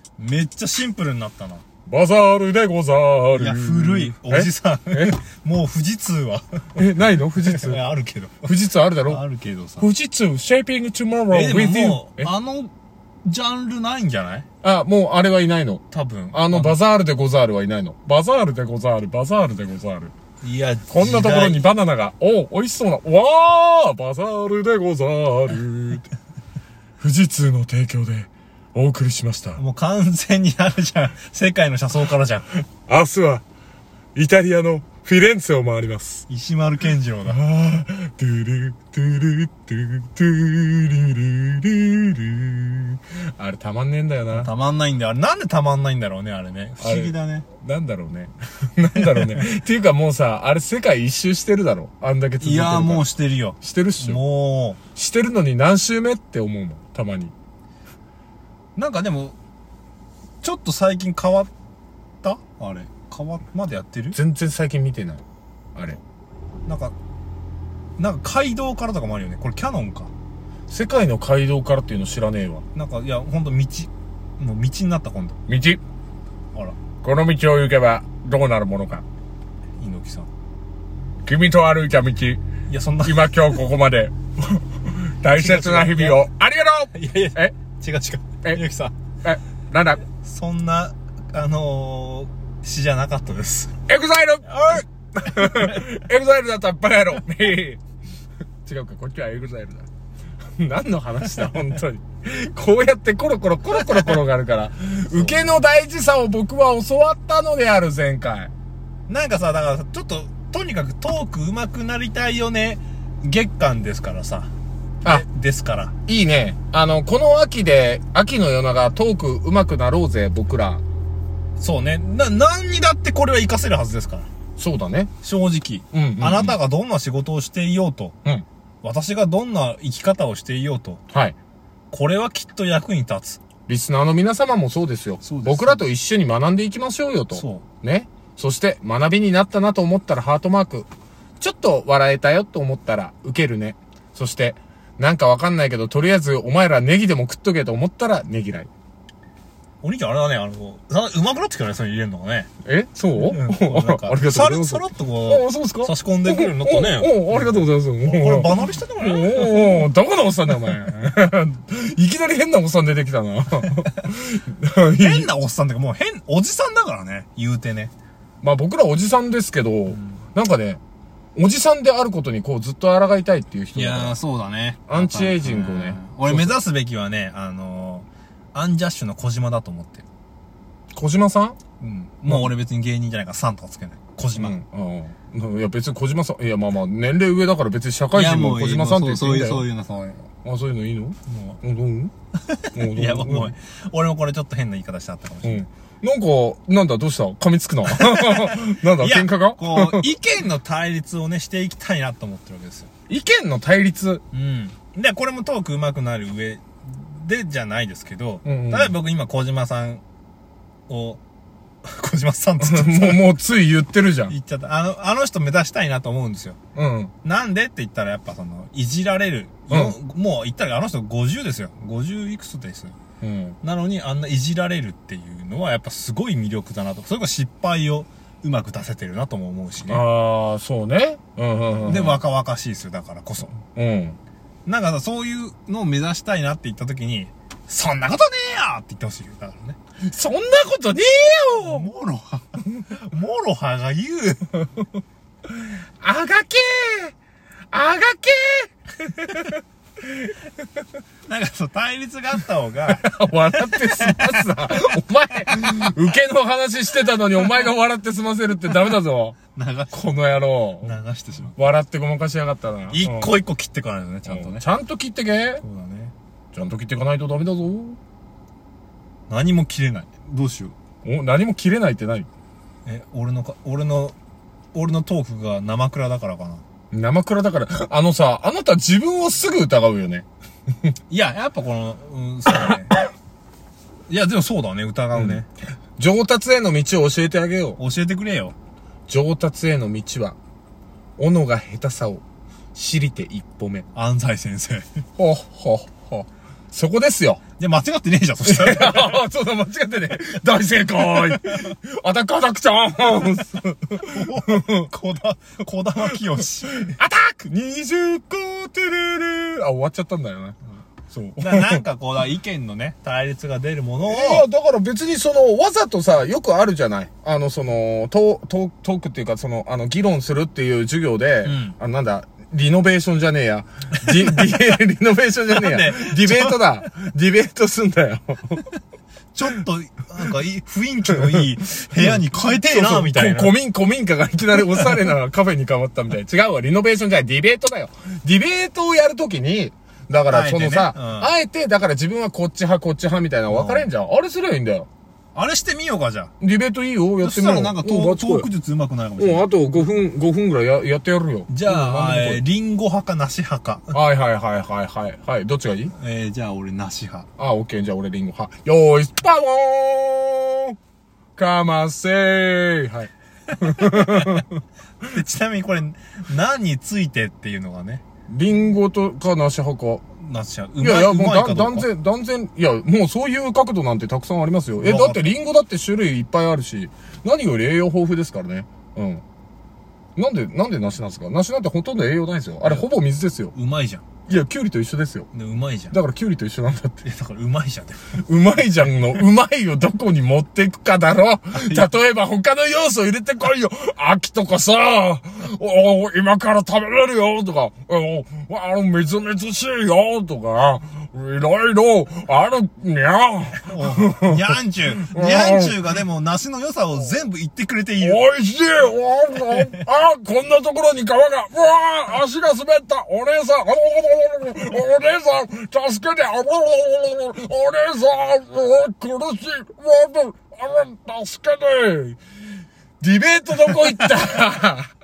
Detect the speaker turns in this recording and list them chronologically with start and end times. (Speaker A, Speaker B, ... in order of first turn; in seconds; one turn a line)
Speaker A: 0.2-1.6
Speaker B: 1.9-5.2
Speaker A: 3.4-6.5
Speaker B: 6.8-7.8
Speaker A: 7.4-8.5
Speaker B: 8.4-9.2
Speaker A: 9.1-9.9
Speaker B: 9.8-12.3
Speaker A: 11.3-12.7
Speaker A: 13.2-14.5
Speaker B: 14.6-20.1
Speaker A: 15.9-16.8
Speaker A: 20.4-21.7
Speaker B: 20.9-26.1
Speaker B: 27.0-29.6
Speaker A: 29.6-32.5
Speaker B: 32.9-33.4
Speaker B: 34.1-36.3
Speaker A: 36.3-37.4
Speaker B: 37.3-44.5
Speaker A: 44.3-47.5
Speaker B: 46.8-53.1
Speaker A: 49.0-49.4
Speaker A: 52.4-54.8
Speaker B: 53.6-54.2
Speaker B: 54.9-57.3
Speaker A: 58.8-59.4
Speaker A: 60.4-61.5
Speaker A: 62.2-64.2
Speaker B: 64.1-65.2
Speaker A: 66.7-67.0
Speaker A: 68.0-70.1
Speaker B: 70.7-72.7
Speaker A: 72.7-75.4
Speaker B: 75.5-75.8
Speaker B: 77.0-79.0
Speaker A: 79.8-80.3
Speaker B: 81.2-82.4
Speaker A: 82.7-83.4
Speaker B: 83.0-87.5
Speaker A: 85.3-86.2
Speaker A: 86.9-88.9
Speaker B: 89.2-90.0
Speaker A: 90.2-93.7
Speaker B: 93.9-97.8
Speaker B: 98.7-99.9
Speaker B: 100.6-108.5
Speaker A: 105.1-105.6
Speaker A: 109.1-114.5
Speaker A: 115.0-115.9
Speaker B: 116.1-120.8
Speaker A: 121.6-124.3
Speaker B: 124.6-125.1
Speaker A: 125.2-128.2
Speaker B: 125.9-126.6
Speaker A: 128.8-131.0
Speaker B: 131.1-131.4
Speaker A: 131.9-133.4
Speaker B: 133.7-140.9
Speaker A: 135.2-135.9
Speaker A: 137.3-137.7
Speaker B: 141.4-148.7
Speaker A: 149.8-152.5
Speaker B: 152.6-165.3
Speaker A: 153.2-159.9
Speaker A: 165.0-167.9
Speaker B: 168.4-170.8
Speaker A: 169.9-170.2
Speaker B: 171.4-174.2
Speaker A: 173.8-180.1
Speaker B: 174.9-176.6
Speaker B: 180.9-181.6
Speaker A: 181.8-184.6
Speaker B: 184.4-189.6
Speaker A: 188.1-190.2
Speaker B: 190.4-192.1
Speaker A: 191.3-191.6
Speaker A: 192.4-195.7
Speaker B: 192.7-193.5
Speaker B: 195.4-200.1
Speaker A: 197.9-202.9
Speaker B: 203.1-204.2
Speaker A: 204.3-210.0
Speaker B: 208.4-209.0
Speaker A: 210.9-211.2
Speaker A: 211.8-213.4
Speaker B: 212.6-214.3
Speaker A: 214.3-216.6
Speaker B: 216.8-217.1
Speaker A: 217.2-223.0
Speaker B: 219.7-219.9
Speaker B: 223.2-223.6
Speaker A: 223.6-230.0
Speaker B: 229.9-232.2
Speaker A: 231.8-233.6
Speaker B: 233.7-234.2
Speaker A: 234.7-239.8
Speaker B: 240.0-241.9
Speaker A: 241.6-244.6
Speaker B: 246.0-247.2
Speaker B: 247.7-249.6
Speaker A: 251.3-254.6
Speaker B: 252.9-259.4
Speaker A: 259.6-261.7
Speaker B: 259.9-260.9
Speaker B: 261.6-263.4
Speaker A: 262.9-264.7
Speaker B: 264.3-265.6
Speaker A: 265.6-266.1
Speaker B: 266.5-268.0
Speaker A: 269.3-270.8
Speaker B: 271.1-272.3
Speaker A: 272.9-274.2
Speaker A: 274.7-276.6
Speaker B: 276.9-280.3
Speaker A: 281.1-283.0
Speaker A: 284.1-285.5
Speaker B: 285.1-285.4
Speaker B: 286.0-287.8
Speaker A: 287.8-288.5
Speaker B: 289.1-290.4
Speaker B: 291.2-292.2
Speaker B: 292.8-293.9
Speaker A: 293.9-294.9
Speaker B: 295.2-297.4
Speaker A: 297.6-299.2
Speaker B: 298.4-304.9
Speaker A: 303.9-306.9
Speaker B: 306.8-310.6
Speaker B: 311.1-311.8
Speaker A: 311.4-314.5
Speaker B: 314.0-328.7
Speaker A: 321.4-321.8
Speaker A: 324.2-324.6
Speaker A: 325.5-326.6
Speaker A: 329.3-333.5
Speaker B: 332.0-344.9
Speaker A: 340.3-341.3
Speaker A: 343.5-343.9
Speaker A: 345.3-346.3
Speaker B: 346.4-348.5
Speaker A: 347.2-349.5
Speaker B: 349.2-352.4
Speaker A: 351.5-354.0
Speaker B: 353.9-355.9
Speaker A: 355.9-357.3
Speaker B: 357.4-360.8
Speaker B: 361.4-364.5
Speaker A: 363.9-364.4
Speaker A: 365.1-368.0
Speaker B: 368.3-370.0
Speaker A: 370.2-371.9
Speaker B: 370.8-379.2
Speaker A: 374.8-375.3
Speaker B: 380.2-383.5
Speaker A: 383.5-384.0
Speaker B: 384.3-385.3
Speaker A: 385.3-386.0
Speaker B: 385.9-387.1
Speaker A: 387.0-388.2
Speaker B: 388.2-405.9
Speaker A: 391.5-391.9
Speaker A: 403.6-408.2
Speaker B: 408.0-422.2
Speaker B: 423.0-424.9